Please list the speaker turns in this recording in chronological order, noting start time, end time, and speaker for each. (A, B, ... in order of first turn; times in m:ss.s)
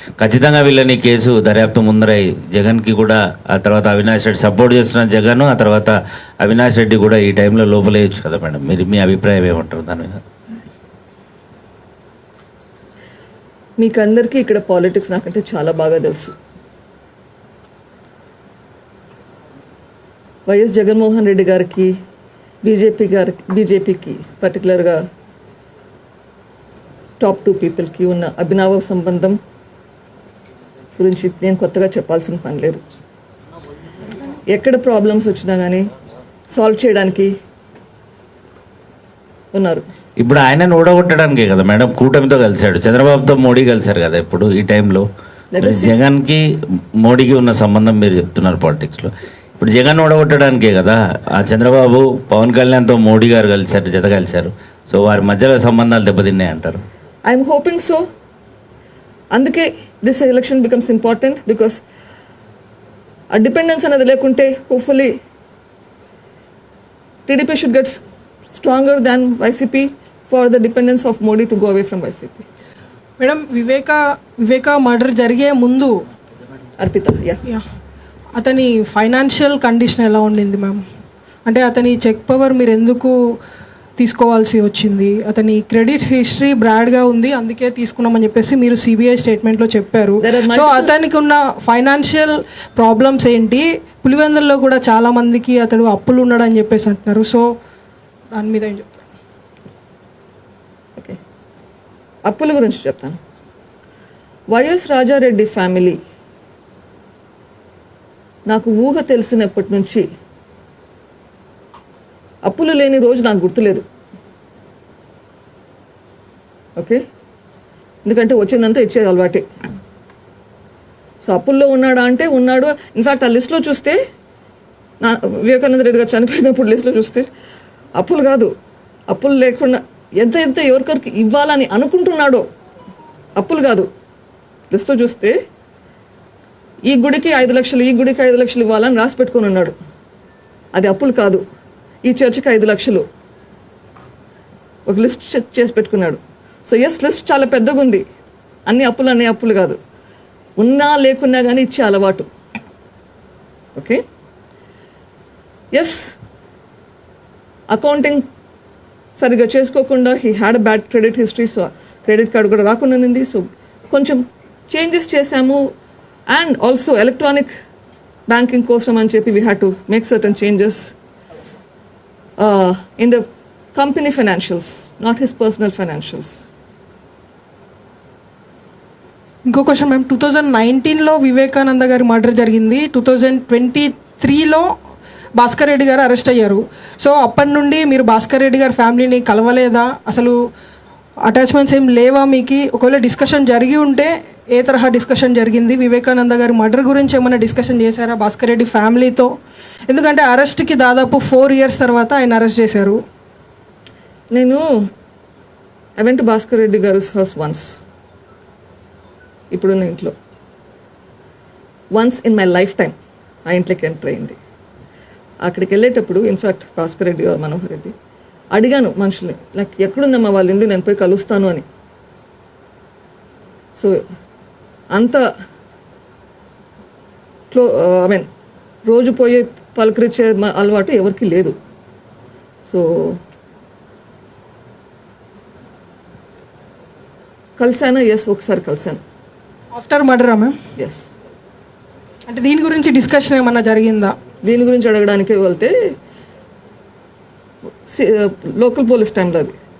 0:00.2-0:10.2 A
0:13.8-0:16.3 B
0:20.4-0:21.9 B
0:22.6-0:25.0 B
0:27.2-0:29.4 B
0:31.0-0:32.8 B
0:34.5-0:35.9 B
0:36.5-0:37.3 B
0:39.5-0:39.8 B
0:40.2-0:45.0 A
0:45.5-0:46.0 B
0:45.6-0:46.4 A
0:47.0-0:56.8 A
0:57.2-0:58.0 B
0:59.3-1:01.8 B
1:03.3-1:05.1 B
1:07.3-1:08.0 B
1:08.5-1:12.4 B
1:13.2-1:16.0 C
1:16.8-1:17.4 B
1:18.4-1:20.8 C
1:21.4-1:23.2 C
1:24.0-1:37.4 C
1:30.2-1:30.9 B
1:38.3-1:39.0 C
1:42.2-1:43.2 B
1:44.5-1:46.0 B
1:48.5-1:50.0 B
1:52.4-1:53.8 B
1:56.8-1:57.0 B
1:58.0-1:59.4 B
2:01.2-2:04.0 B
2:05.0-2:07.3 B
2:08.0-2:08.5 B
2:09.1-2:12.4 B
2:13.4-2:13.9 B
2:14.7-2:15.3 B
2:16.8-2:19.7 B
2:20.7-2:21.4 B
2:22.0-2:23.0 B
2:24.8-2:28.0 B
2:28.7-2:29.8 B
2:30.6-2:32.3 B
2:33.8-2:34.0 B
2:35.7-2:36.1 B
2:37.7-2:38.2 B
2:39.2-2:45.7 B
2:46.3-2:47.5 B
2:48.3-2:50.9 B
2:52.4-2:53.2 B
2:53.7-2:56.4 B
2:59.4-3:04.7 C
3:05.4-3:10.4 C
3:11.2-3:19.3 C
3:19.9-3:23.0 C
3:24.3-3:24.6 B
3:26.0-3:27.8 B
3:29.5-3:30.1 B
3:31.9-3:32.9 B
3:33.4-3:34.4 B
3:35.4-3:37.9 B
3:38.6-3:41.6 B
3:43.8-3:44.0 B
3:44.9-3:45.2 B
3:47.5-3:48.3 B
3:48.8-3:51.6 B
3:52.7-3:53.2 B
3:57.6-3:59.0 B
3:59.7-4:00.6 C
4:00.8-4:01.1 B
4:02.3-4:04.2 C
4:04.4-4:05.7 B
4:07.8-4:09.6 B